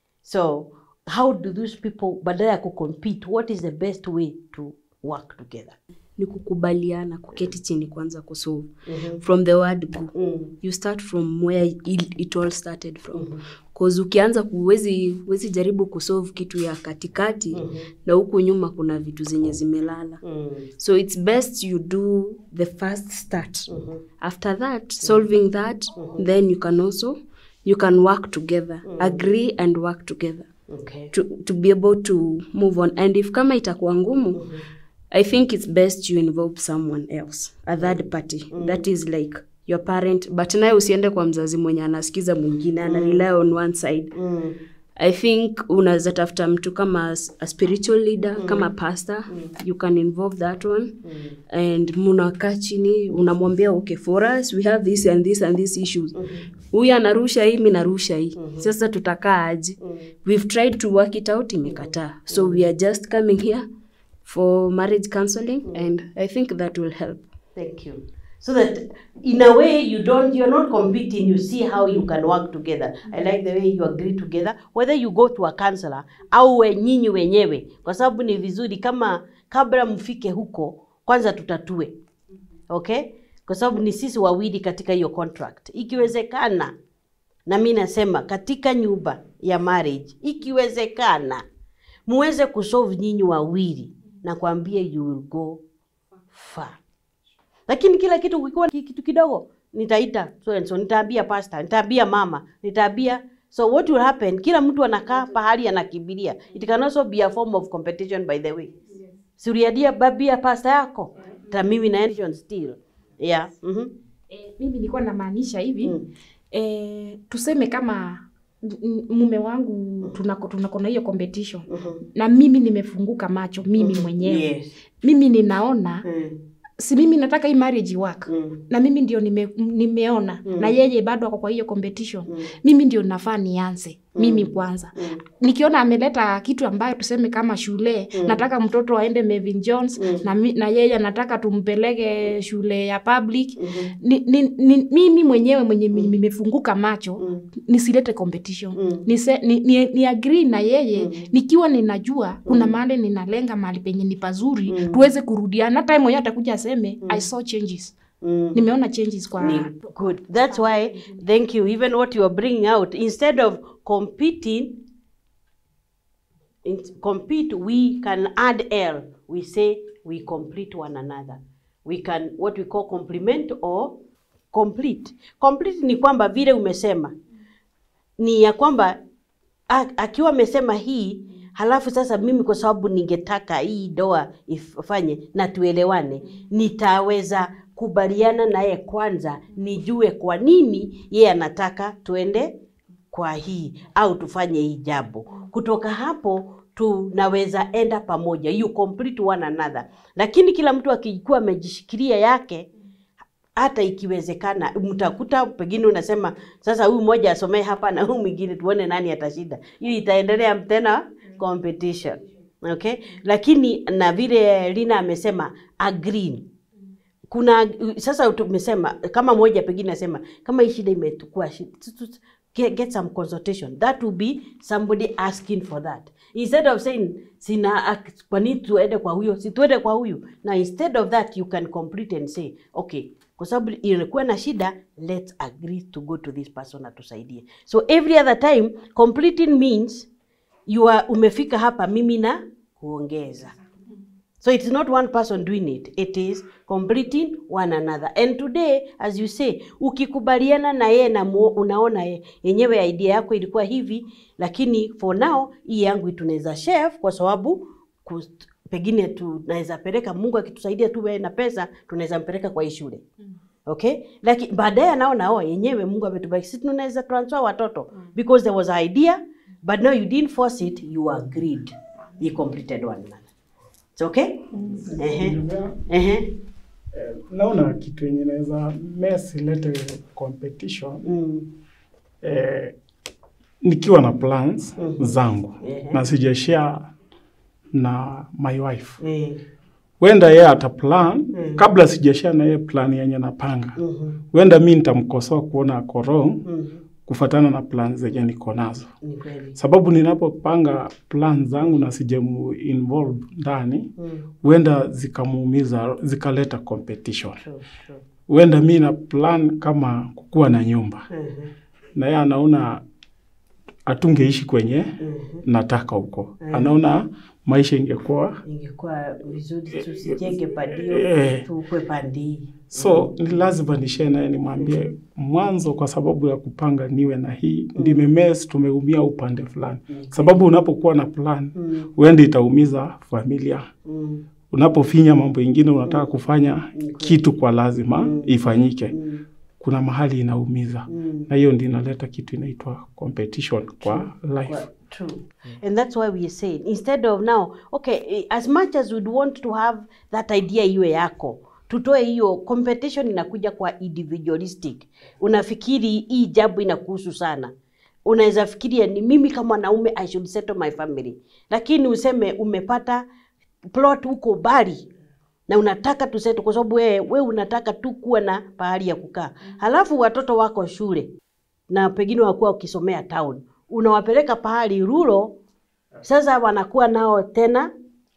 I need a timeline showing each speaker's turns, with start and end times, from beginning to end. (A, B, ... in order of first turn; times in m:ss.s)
0:00.2-0:05.8 A
0:06.2-0:20.2 B
0:08.9-0:09.2 A
0:10.1-0:10.5 A
0:13.1-0:13.4 A
0:17.5-0:17.8 A
0:20.2-0:20.7 A
0:20.8-0:23.7 B
0:23.7-0:24.0 A
0:24.2-0:30.5 B
0:25.9-0:26.2 A
0:28.9-0:29.2 A
0:30.7-0:31.1 A
0:31.1-0:34.5 B
0:34.3-0:34.6 A
0:35.1-0:44.1 B
0:37.8-0:38.8 A
0:42.9-0:43.2 A
0:44.1-0:44.6 A
0:45.0-0:51.0 B
0:48.4-0:48.7 A
0:51.0-0:51.3 A
0:51.5-0:56.2 B
0:56.1-0:56.4 A
0:56.7-1:03.7 B
0:58.4-0:58.7 A
1:01.7-1:02.6 A
1:04.2-1:07.2 B
1:07.6-1:22.0 A
1:22.7-1:26.7 A
1:27.5-1:31.4 A
1:32.1-1:35.6 A
1:36.3-1:36.8 A
1:37.7-1:48.7 A
1:49.4-1:53.9 A
1:54.3-1:56.0 C
1:56.5-2:04.5 C
2:01.7-2:02.0 A
2:03.8-2:04.7 A
2:05.0-2:06.0 C
2:06.0-2:06.4 A
2:06.8-2:38.0 C
2:08.3-2:08.6 A
2:10.5-2:10.7 A
2:14.2-2:15.2 A
2:18.1-2:18.4 A
2:20.0-2:20.2 A
2:23.6-2:23.9 A
2:27.2-2:27.4 A
2:28.7-2:29.0 A
2:30.9-2:31.3 A
2:32.4-2:32.8 A
2:34.7-2:35.0 A
2:38.2-2:38.6 A
2:38.5-2:39.9 C
2:39.4-2:44.8 A
2:40.5-2:41.2 C
2:46.6-2:54.0 A
2:54.5-2:57.1 A
2:58.2-2:59.0 A
2:59.7-3:12.6 A
3:13.1-3:22.7 A
3:23.6-3:36.5 A
3:37.3-4:00.1 A
4:00.7-4:03.5 A
4:04.4-4:23.0 A
4:23.6-4:33.2 A
4:34.0-4:34.4 A
4:34.6-4:35.8 D
4:35.0-4:35.4 A
4:35.9-4:36.3 A
4:36.9-4:41.0 D
4:41.0-4:41.5 A
4:42.2-4:42.7 D
4:43.6-4:46.9 D
4:44.8-4:46.0 A
4:47.7-4:49.0 D
4:49.0-4:49.4 A
4:50.0-4:53.8 D
4:51.3-4:51.6 A
4:53.8-4:54.2 A
4:54.3-4:56.4 D
4:56.4-4:56.8 A
4:57.0-4:58.9 D
4:59.0-4:59.6 A
4:59.6-5:03.9 D
5:04.0-5:04.3 A
5:04.4-5:07.4 D
5:07.4-5:08.0 A
5:08.3-5:11.1 D
5:11.1-5:11.5 A
5:12.0-5:12.8 D
5:13.9-5:18.4 D
5:15.0-5:15.4 A
5:16.4-5:16.8 A
5:18.4-5:23.1 A
5:20.0-5:21.4 D
5:22.7-5:33.7 D
5:27.8-5:28.1 A
5:29.9-5:30.4 A
5:31.5-5:31.9 A
5:33.9-5:34.2 A
5:34.5-5:39.0 D
5:35.8-5:36.1 A
5:36.7-5:37.4 A
5:38.0-5:38.3 A
5:38.9-5:39.2 A
5:39.6-5:44.6 D
5:40.9-5:41.3 A
5:43.8-5:57.5 A
5:58.0-6:03.0 A
6:03.7-6:04.9 A
6:05.5-6:11.1 A
6:11.7-6:15.4 A
6:16.0-6:17.7 A